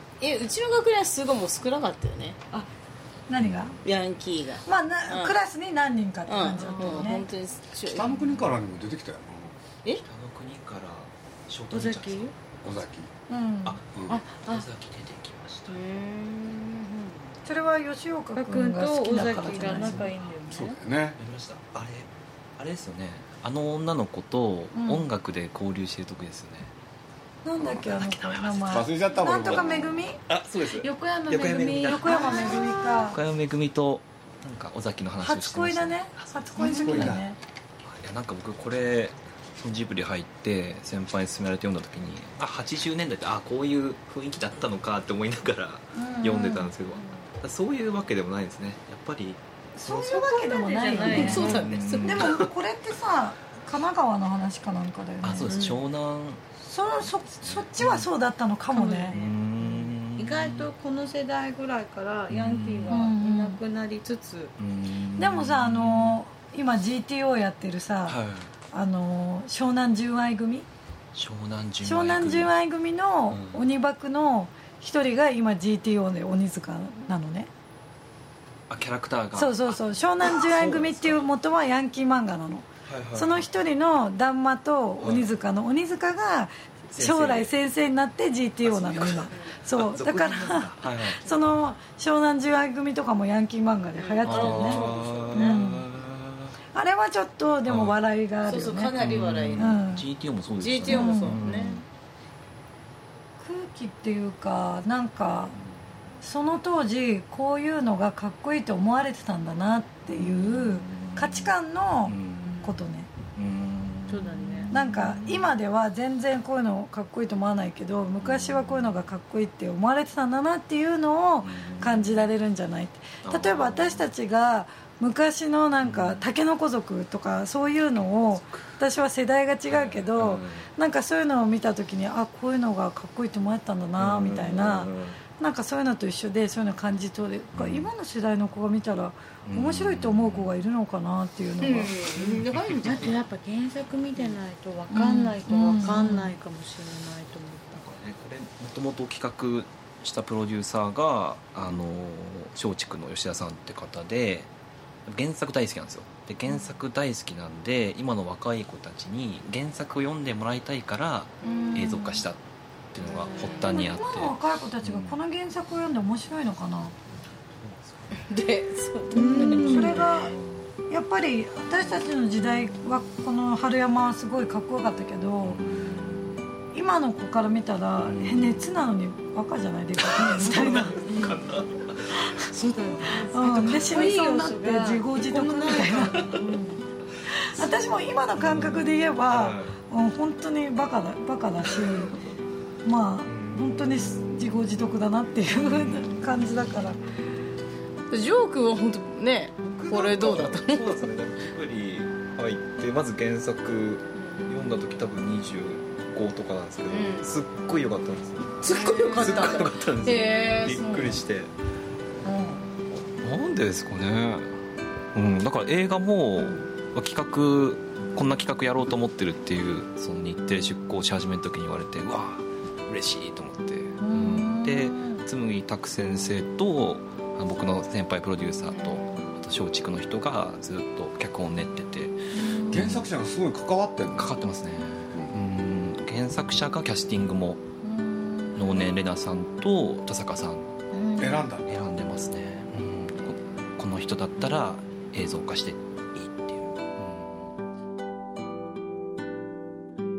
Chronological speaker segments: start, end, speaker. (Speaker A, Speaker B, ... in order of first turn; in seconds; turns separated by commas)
Speaker A: 0.2-2.4, Speaker B: 3.3-3.8, Speaker A: 3.8-5.4, Speaker B: 4.7-7.2, Speaker A: 6.3-8.1, Speaker C: 6.5-7.2, Speaker D: 7.8-9.6, Speaker E: 10.0-12.3, Speaker C: 11.7-12.3, Speaker D: 12.6-13.1, Speaker B: 13.3-13.8, Speaker E: 13.6-15.7, Speaker D: 13.9-14.2, Speaker C: 14.1-14.7, Speaker A: 15.7-17.3, Speaker B: 17.4-20.1, Speaker C: 18.4-20.8, Speaker E: 19.2-20.4, Speaker D: 20.5-21.2, Speaker E: 21.2-26.7, Speaker B: 24.7-25.1, Speaker B: 27.4-30.2, Speaker E: 27.6-28.9, Speaker D: 28.7-30.1, Speaker E: 30.3-37.2, Speaker C: 30.6-32.7, Speaker B: 31.8-33.2, Speaker B: 35.2-37.4, Speaker D: 36.6-37.2, Speaker E: 37.8-50.2, Speaker B: 46.0-46.7, Speaker B: 49.8-55.6, Speaker C: 49.9-51.7, Speaker A: 51.0-52.4, Speaker E: 51.1-52.5, Speaker E: 55.2-56.4, Speaker C: 55.4-55.9, Speaker B: 56.6-59.1, Speaker E: 57.4-58.1, Speaker C: 58.7-64.5, Speaker E: 59.1-60.7, Speaker E: 62.3-63.1, Speaker B: 62.9-63.6, Speaker E: 64.6-66.2, Speaker B: 65.2-68.2, Speaker E: 68.1-68.5, Speaker B: 68.7-70.7, Speaker E: 71.1-72.5, Speaker B: 71.8-77.5, Speaker E: 73.3-73.7, Speaker E: 78.7-81.3, Speaker B: 79.3-95.9, Speaker E: 82.9-83.5, Speaker E: 85.0-85.4, Speaker E: 86.9-87.5, Speaker E: 88.6-91.3, Speaker A: 89.3-89.5, Speaker A: 94.0-95.7, Speaker E: 94.2-96.5, Speaker B: 96.7-99.0, Speaker E: 97.7-98.0, Speaker A: 98.4-99.8, Speaker E: 99.0-101.8, Speaker B: 99.5-100.0, Speaker A: 100.6-101.8, Speaker B: 100.8-101.4, Speaker B: 103.4-105.6, Speaker B: 106.2-113.1, Speaker E: 110.1-111.5, Speaker E: 112.0-112.7, Speaker C: 112.4-112.8, Speaker E: 113.3-115.5, Speaker C: 114.1-114.8, Speaker B: 114.7-142.0, Speaker E: 118.2-118.9, Speaker E: 121.4-122.3, Speaker E: 123.2-124.1, Speaker E: 125.8-126.2, Speaker E: 129.7-130.7, Speaker E: 134.0-135.2, Speaker E: 137.5-137.9, Speaker E: 139.4-140.6, Speaker A: 141.6-143.2, Speaker E: 142.1-143.1, Speaker C: 142.8-147.8, Speaker B: 144.9-146.3, Speaker E: 147.8-154.5, Speaker E: 155.1-162.4, Speaker A: 161.4-162.0, Speaker B: 161.4-162.2, Speaker E: 162.9-165.2, Speaker A: 163.1-163.6, Speaker B: 163.7-166.9, Speaker E: 167.5-168.1, Speaker A: 168.1-170.2, Speaker C: 169.1-170.0, Speaker B: 169.1-170.3, Speaker E: 169.9-170.7, Speaker B: 170.9-175.6, Speaker E: 175.4-176.4, Speaker B: 176.7-181.1, Speaker E: 178.0-178.7, Speaker E: 180.0-182.2, Speaker C: 180.6-181.4, Speaker B: 182.1-182.5, Speaker C: 182.4-186.8, Speaker B: 183.1-186.4, Speaker B: 187.3-192.2, Speaker E: 188.3-189.8, Speaker E: 191.6-192.1, Speaker B: 192.8-197.0, Speaker E: 193.2-193.9, Speaker E: 195.6-196.1, Speaker A: 198.1-201.0, Speaker E: 199.7-211.5, Speaker A: 204.1-204.6, Speaker A: 206.9-207.3, Speaker A: 208.6-211.2, Speaker A: 212.2-212.6, Speaker E: 213.2-214.6, Speaker E: 215.1-233.0, Speaker B: 224.0-225.2, Speaker A: 228.7-229.3, Speaker B: 232.5-232.9, Speaker D: 232.7-234.3, Speaker E: 234.2-237.6, Speaker E: 238.5-240.7, Speaker D: 241.2-241.7, Speaker E: 241.6-247.4